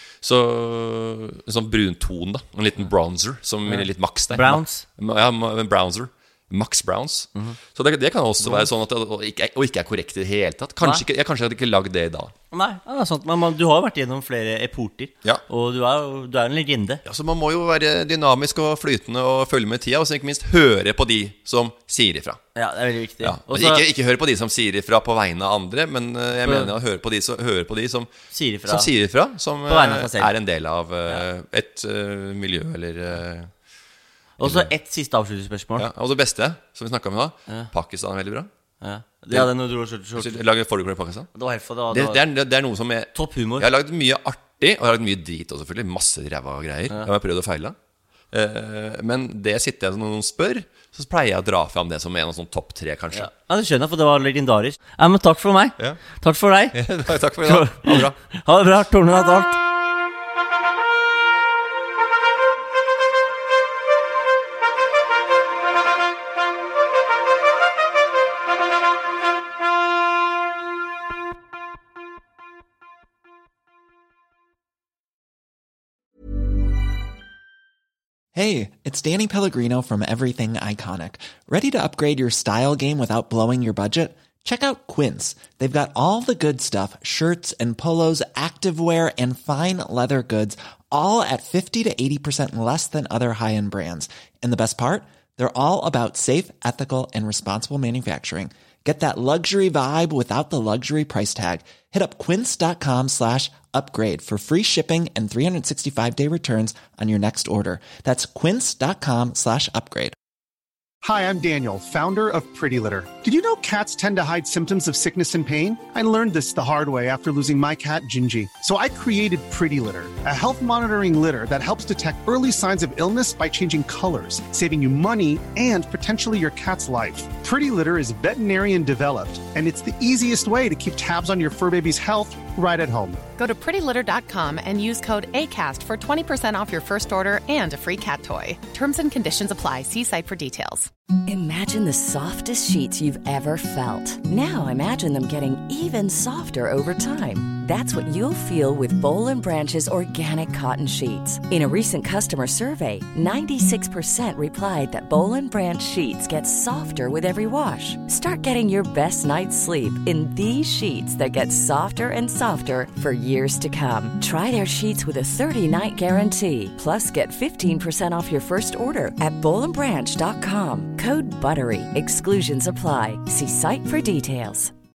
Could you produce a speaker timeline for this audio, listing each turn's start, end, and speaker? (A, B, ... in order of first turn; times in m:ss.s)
0:00.2-0:12.3 A
0:03.7-0:04.8 B
0:12.5-0:17.0 B
0:17.0-0:22.4 A
0:22.6-0:23.8 B
0:23.2-0:28.1 A
0:26.4-0:26.7 B
0:28.3-0:28.9 B
0:28.7-0:33.5 A
0:29.6-0:30.3 B
0:34.4-0:35.9 B
0:34.4-0:34.7 A
0:35.8-0:38.5 A
0:38.8-0:40.3 B
0:40.2-0:41.3 A
0:41.3-0:42.2 B
0:41.9-0:47.8 A
0:43.1-0:43.7 B
0:48.3-0:53.3 A
0:53.1-0:56.8 B
0:56.7-0:58.2 A
0:57.4-0:59.6 B
1:18.3-1:50.2 C
1:51.0-2:13.3 D
2:13.4-2:20.9 E
2:21.3-2:54.7 F